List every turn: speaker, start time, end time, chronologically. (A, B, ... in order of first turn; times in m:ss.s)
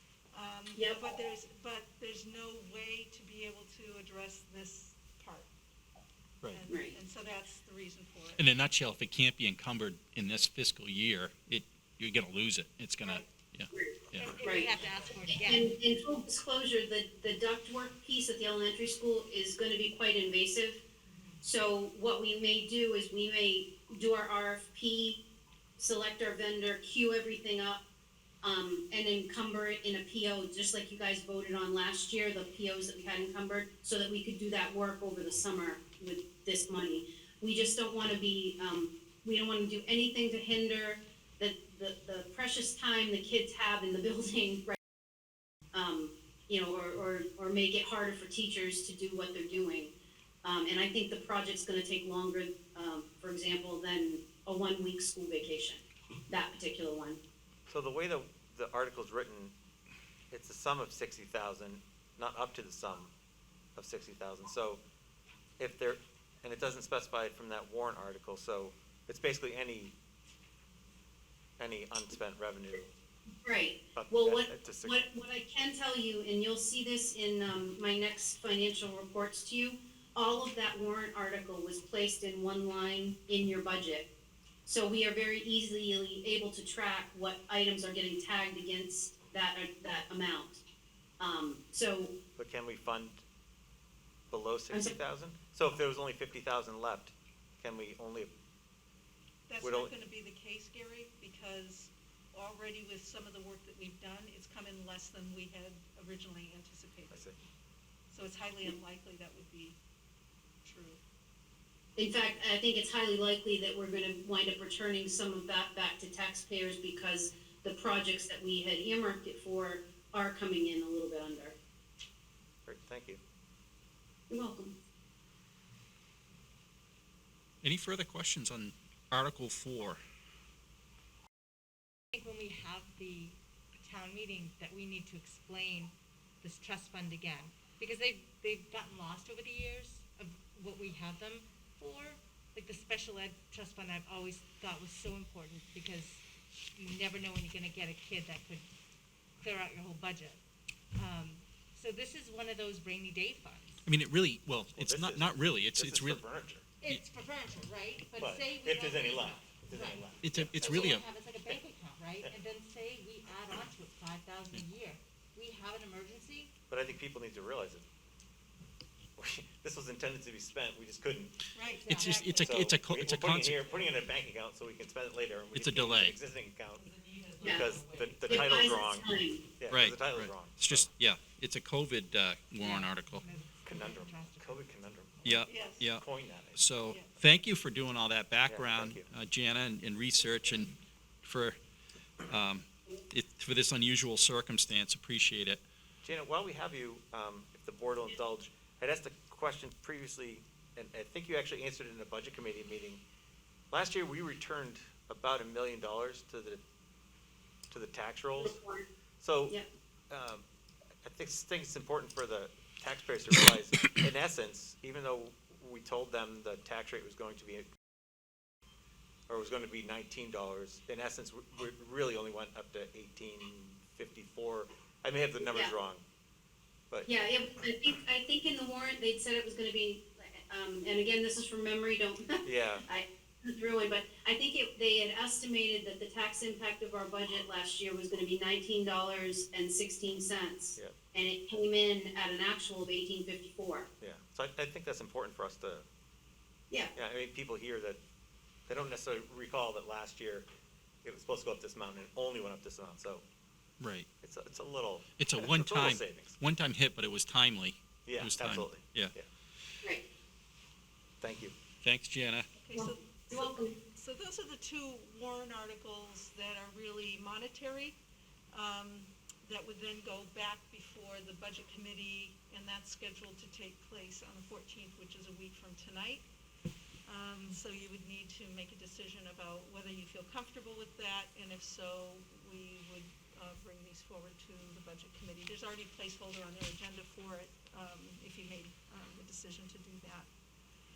0:00.3-0:05.5 A
0:00.7-0:01.1 B
0:06.5-0:08.5 A
0:06.7-0:07.0 B
0:08.4-0:14.4 C
0:13.0-0:13.2 A
0:13.7-0:20.8 B
0:14.2-0:15.7 D
0:21.4-0:25.2 B
0:25.8-0:27.8 B
0:28.4-0:44.8 B
0:45.7-0:49.9 B
0:50.4-0:57.2 B
0:57.7-0:59.5 E
1:00.3-1:03.1 E
1:03.8-1:04.8 E
1:05.6-1:09.9 E
1:11.6-1:12.9 E
1:13.4-1:24.1 B
1:13.9-1:15.0 E
1:24.6-1:30.6 B
1:31.2-1:32.2 B
1:32.4-1:33.2 E
1:34.3-1:38.3 E
1:39.5-1:47.3 A
1:39.6-1:39.9 E
1:47.1-1:47.4 E
1:48.1-1:49.8 A
1:50.6-1:51.0 A
1:52.0-2:01.6 B
2:02.6-2:03.2 E
2:04.3-2:04.7 B
2:07.6-2:10.0 C
2:12.1-2:26.2 D
2:26.7-2:28.7 D
2:29.4-2:30.4 D
2:31.0-2:33.8 D
2:33.8-2:36.2 C
2:34.7-2:36.7 E
2:36.8-2:46.5 D
2:38.2-2:41.6 E
2:40.2-2:41.0 C
2:46.7-2:47.8 E
2:49.2-2:51.3 E
2:51.5-2:52.4 A
2:51.7-2:52.7 D
2:51.9-2:53.6 C
2:52.3-2:56.9 E
2:53.6-2:54.0 D
2:55.5-2:56.2 C
2:56.7-2:58.7 D
2:57.4-2:59.1 E
2:57.4-2:59.4 B
2:59.6-3:00.9 E
2:59.7-3:03.2 C
3:02.6-3:04.7 D
3:03.6-3:06.7 E
3:05.2-3:06.0 C
3:05.5-3:05.9 A
3:06.6-3:10.7 C
3:06.9-3:07.1 A
3:08.5-3:09.1 E
3:11.2-3:11.6 C
3:12.3-3:15.6 C
3:16.0-3:23.0 E
3:23.7-3:26.6 E
3:27.7-3:28.6 E
3:28.4-3:28.8 B
3:29.2-3:29.6 E
3:30.1-3:30.4 E
3:31.0-3:37.7 E
3:39.3-3:46.0 E
3:45.4-3:45.8 B
3:47.0-4:03.9 B
3:52.4-3:52.8 E
4:04.0-4:05.8 E
4:06.9-4:08.0 E
4:08.7-4:10.4 E
4:11.0-4:13.2 E
4:13.8-4:14.1 C
4:14.2-4:16.4 E
4:15.2-4:19.1 C
4:18.0-4:19.3 E
4:21.2-4:21.5 E
4:21.8-4:22.5 C
4:22.6-4:28.0 A
4:22.7-4:23.7 B
4:28.5-4:36.2 A
4:37.0-4:50.3 A